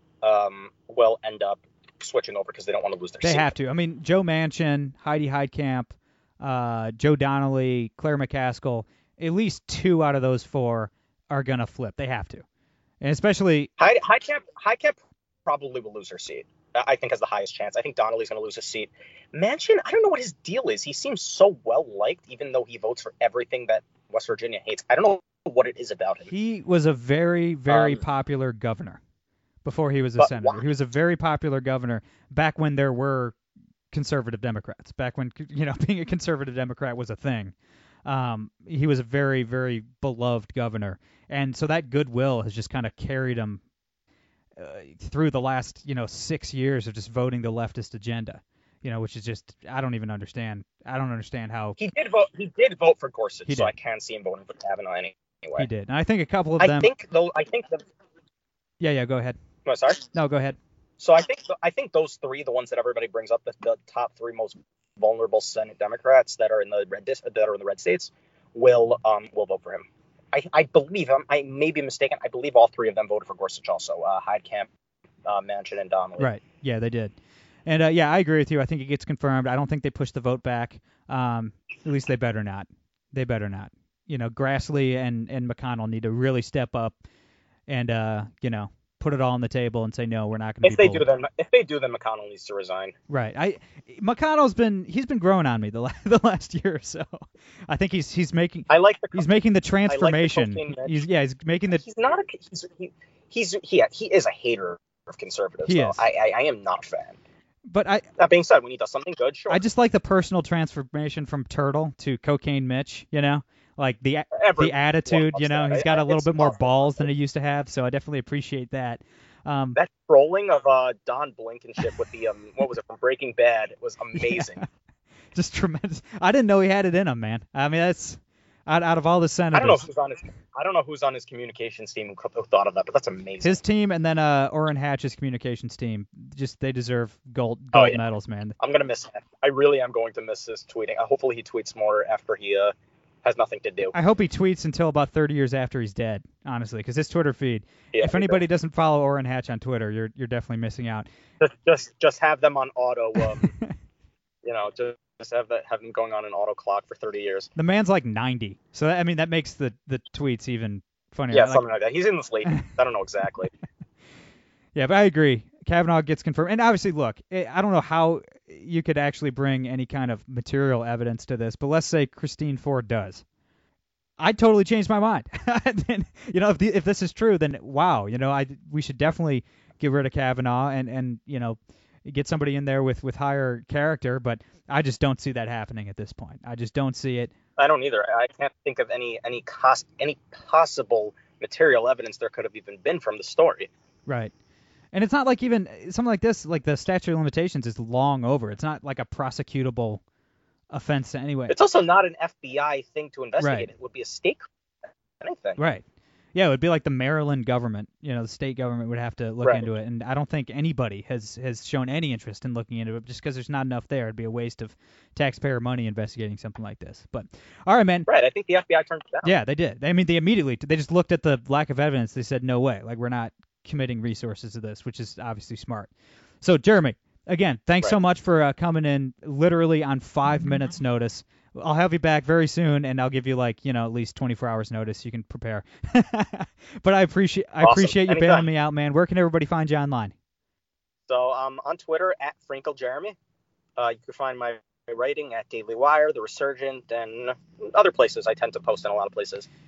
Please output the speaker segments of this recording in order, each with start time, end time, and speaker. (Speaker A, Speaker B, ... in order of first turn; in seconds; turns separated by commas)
Speaker A: 0.2-3.5, Speaker B: 3.2-12.4, Speaker B: 13.0-13.7, Speaker A: 13.8-26.3, Speaker B: 26.3-29.0, Speaker A: 27.7-28.0, Speaker B: 29.6-33.4, Speaker A: 30.2-30.6, Speaker B: 33.9-37.5, Speaker B: 38.0-43.6, Speaker B: 44.6-51.8, Speaker A: 51.8-55.7, Speaker B: 53.5-53.7, Speaker B: 55.5-56.9, Speaker A: 56.6-57.8, Speaker B: 58.8-59.4, Speaker A: 59.6-60.1, Speaker B: 60.1-60.6, Speaker A: 61.0-74.7, Speaker A: 75.2-76.3, Speaker B: 76.2-77.1, Speaker B: 77.7-87.0, Speaker B: 87.7-91.0, Speaker A: 90.6-92.9, Speaker B: 93.1-101.8, Speaker A: 98.7-99.2, Speaker A: 99.9-101.0, Speaker A: 101.7-107.2, Speaker B: 105.6-106.0, Speaker B: 107.7-108.1, Speaker A: 108.2-109.6, Speaker B: 109.5-119.8, Speaker A: 114.3-117.1, Speaker A: 119.7-124.6, Speaker B: 124.2-124.6, Speaker B: 125.3-129.8, Speaker A: 129.5-133.6, Speaker B: 133.4-138.6, Speaker A: 137.7-138.0, Speaker A: 138.6-143.9, Speaker B: 143.9-151.1, Speaker A: 147.9-148.4, Speaker A: 151.4-153.5, Speaker A: 154.4-157.5, Speaker B: 157.6-161.6, Speaker A: 161.3-163.5, Speaker B: 164.7-173.2, Speaker B: 174.2-187.3, Speaker A: 187.6-193.7, Speaker B: 194.1-194.3, Speaker B: 194.9-200.0, Speaker B: 200.7-201.5, Speaker A: 201.5-204.5, Speaker B: 203.4-203.7, Speaker A: 205.2-205.6, Speaker B: 205.6-205.8, Speaker B: 206.3-218.1, Speaker A: 218.1-219.3, Speaker B: 219.2-225.9, Speaker B: 226.4-240.1, Speaker A: 237.6-238.5, Speaker A: 241.1-243.2, Speaker A: 243.8-249.5